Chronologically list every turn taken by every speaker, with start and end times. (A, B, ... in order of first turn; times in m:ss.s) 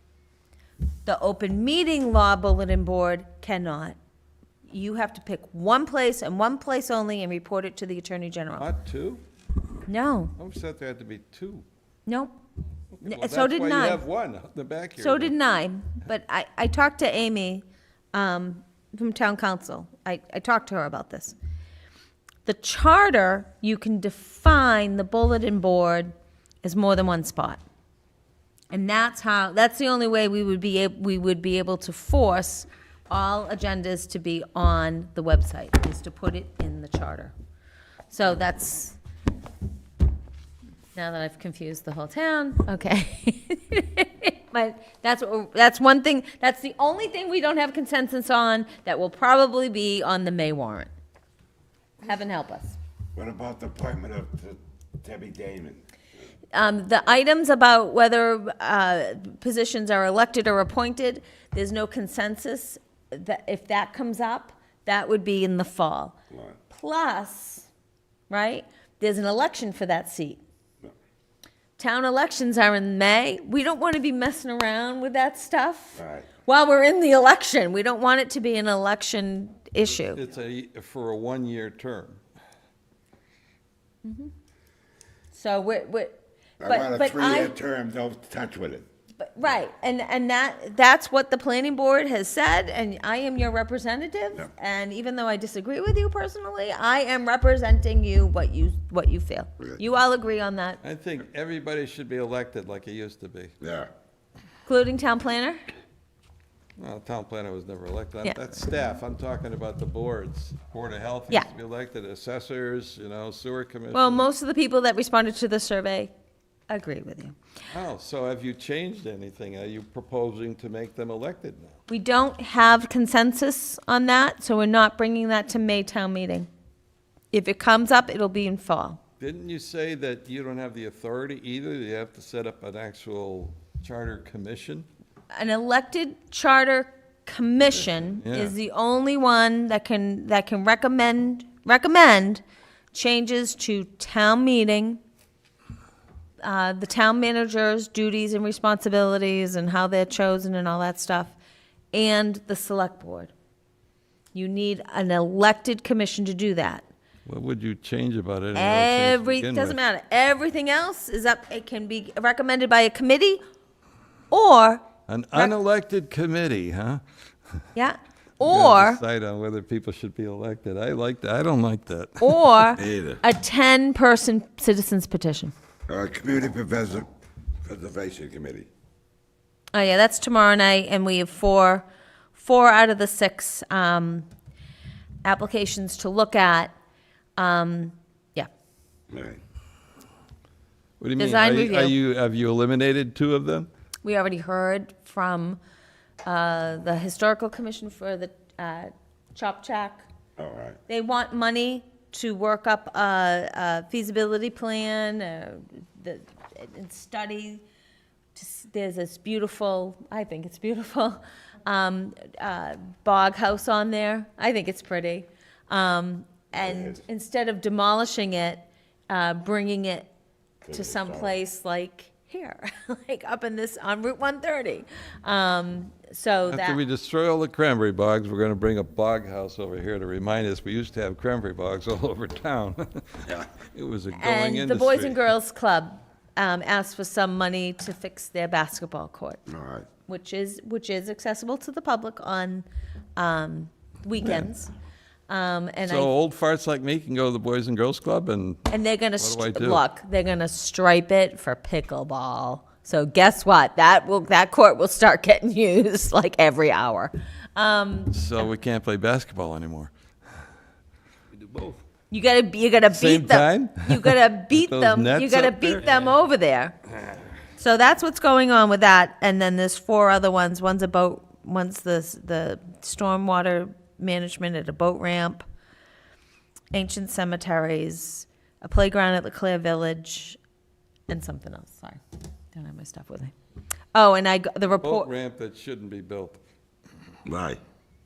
0:01.0-0:04.0 A
0:04.6-0:08.7 A
0:08.6-0:09.2 B
0:09.9-0:10.3 A
0:10.4-0:11.6 B
0:12.0-0:12.3 A
0:13.0-0:15.3 B
0:13.0-0:14.0 A
0:15.0-0:21.4 A
0:22.4-0:27.6 A
0:28.7-0:37.3 A
0:38.1-0:39.0 A
0:40.9-0:50.9 A
0:52.0-0:52.8 A
0:53.1-0:55.8 C
0:56.5-1:06.2 A
1:06.3-1:06.6 C
1:06.7-1:07.7 A
1:08.3-1:10.4 A
1:11.8-1:20.2 A
1:16.0-1:16.3 C
1:20.1-1:22.2 B
1:24.0-1:24.3 A
1:25.3-1:27.6 A
1:26.6-1:28.8 C
1:29.2-1:40.8 A
1:40.8-1:43.5 B
1:43.6-1:43.9 C
1:44.6-1:45.6 A
1:46.8-1:54.2 B
1:53.9-1:56.1 A
1:56.7-1:57.4 A
1:57.7-2:01.7 B
2:01.9-2:06.5 A
2:07.3-2:09.0 A
2:09.2-2:14.8 B
2:15.3-2:25.0 A
2:18.2-2:18.6 B
2:26.4-2:31.4 A
2:31.9-2:33.3 A
2:34.3-2:36.8 A
2:37.2-2:39.8 B
2:38.5-2:43.4 A
2:44.3-2:45.5 A
2:45.1-2:47.0 B
2:47.7-2:49.0 A
2:48.4-2:52.7 B
2:52.2-2:55.5 A
2:52.8-2:53.2 C
2:55.9-2:57.1 C
2:57.6-2:58.7 C
2:59.7-3:04.3 A
3:05.2-3:06.7 A
3:07.4-3:08.5 A
3:09.1-3:09.4 C
3:11.0-3:13.7 B
3:11.2-3:12.0 A
3:14.0-3:15.6 A
3:16.2-3:20.0 A
3:20.4-3:20.8 C
3:20.9-3:27.6 A
3:28.3-3:40.1 A
3:36.5-3:37.0 C
3:40.6-3:41.3 C
3:40.7-3:46.8 A
3:46.5-3:55.2 B
3:54.1-3:59.4 A
3:59.5-3:59.9 C
4:00.1-4:02.6 A
4:03.2-4:04.7 A
4:05.3-4:06.1 A
4:05.8-4:09.8 B
4:08.7-4:18.5 A
4:18.1-4:19.9 B
4:22.1-4:26.7 A
4:22.9-4:25.9 B
4:27.6-4:35.4 A
4:36.7-4:40.4 A
4:41.1-4:42.0 A
4:42.5-4:43.3 A
4:43.9-4:45.1 A
4:44.8-4:46.4 B
4:47.2-4:47.6 C